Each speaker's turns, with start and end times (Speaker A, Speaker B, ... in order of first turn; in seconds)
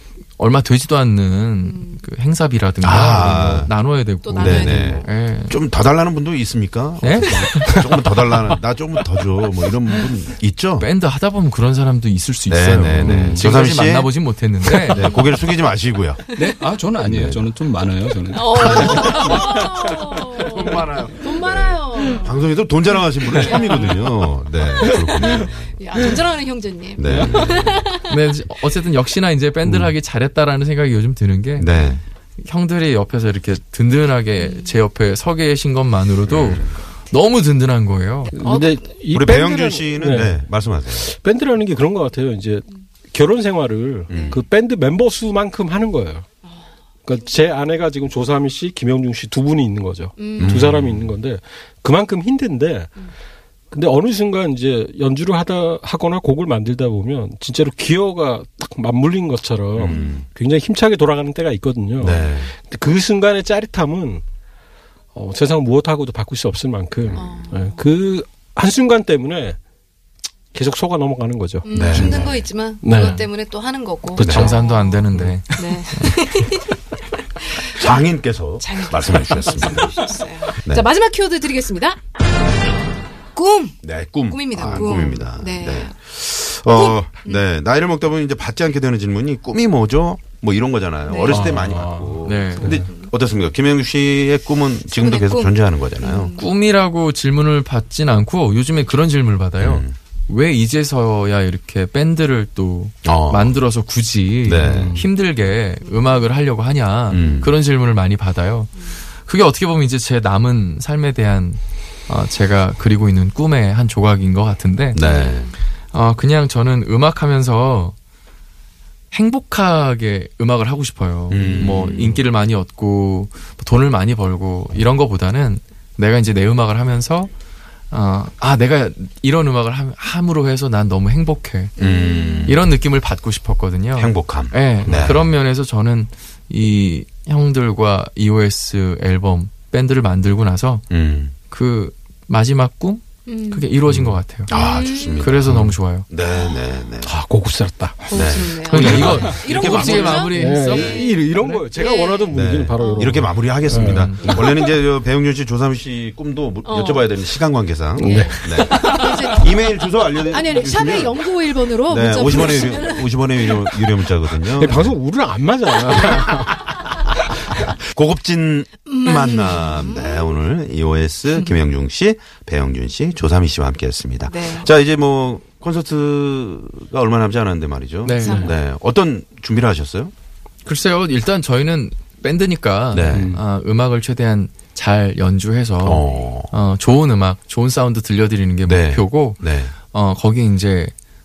Speaker A: 0.4-5.6, 7.0-8.0, 10.8-15.1, 28.0-31.8, 32.4-38.4, 72.9-73.2, 74.2-76.2, 92.2-92.8, 96.4-115.0, 115.9-117.9, 119.1-127.3, 127.9-131.7, 132.4-140.8, 141.5-144.5, 145.2-146.1, 148.7-151.6, 153.8-154.3, 178.0-178.5, 180.6-190.9
Speaker B: 1.6-2.0, 4.2-5.1, 7.0-7.7, 14.9-15.6, 16.3-16.6, 18.3-22.4, 23.3-24.3, 24.8-28.1, 34.4-34.8, 38.4-38.8, 44.1-44.4, 50.2-50.6, 59.9-60.2, 67.1-67.8, 71.6-76.8, 77.4-77.9, 78.6-82.0, 83.3-86.0, 86.7-87.4, 91.0-91.5, 92.8-93.1, 94.9-96.5, 105.8-106.2, 107.1-107.5, 115.0-115.5, 131.8-132.6, 143.3-143.7, 144.5-145.3, 146.2-146.6, 148.1-153.3, 154.1-154.7, 156.6-157.1, 158.0-163.5, 168.9-170.4, 171.3-171.6, 174.2-174.7, 178.2-178.5
Speaker C: 2.8-3.7, 4.3-10.9, 12.5-14.1, 14.9-16.2, 17.0-17.4, 18.6-19.8, 20.4-25.9, 27.0-27.7, 31.6-32.0, 36.2-36.8, 39.1-41.1, 44.1-44.4, 50.4-51.1, 59.7-60.2, 62.0-62.5, 71.7-72.4, 74.2-74.5, 77.7-80.0, 83.8-96.4, 99.6-100.0, 103.0-103.6, 104.4-105.0, 107.1-107.5, 114.9-115.5, 121.3-122.2, 131.8-132.8, 133.9-135.3, 140.9-141.3, 143.9-147.1, 148.1-149.7, 152.3-161.3, 161.8-164.9, 165.9-166.2, 167.7-180.1, 182.9-183.3, 185.8-186.5, 188.7-189.7
Speaker D: 12.9-13.4, 16.3-19.8, 27.1-27.4, 183.1-183.4
Speaker E: 38.3-46.2, 47.0-52.9, 53.7-64.2, 65.1-69.6, 70.5-73.2, 74.1-74.5, 91.2-92.8, 147.0-148.2, 148.7-154.4, 158.0-159.1, 164.5-166.5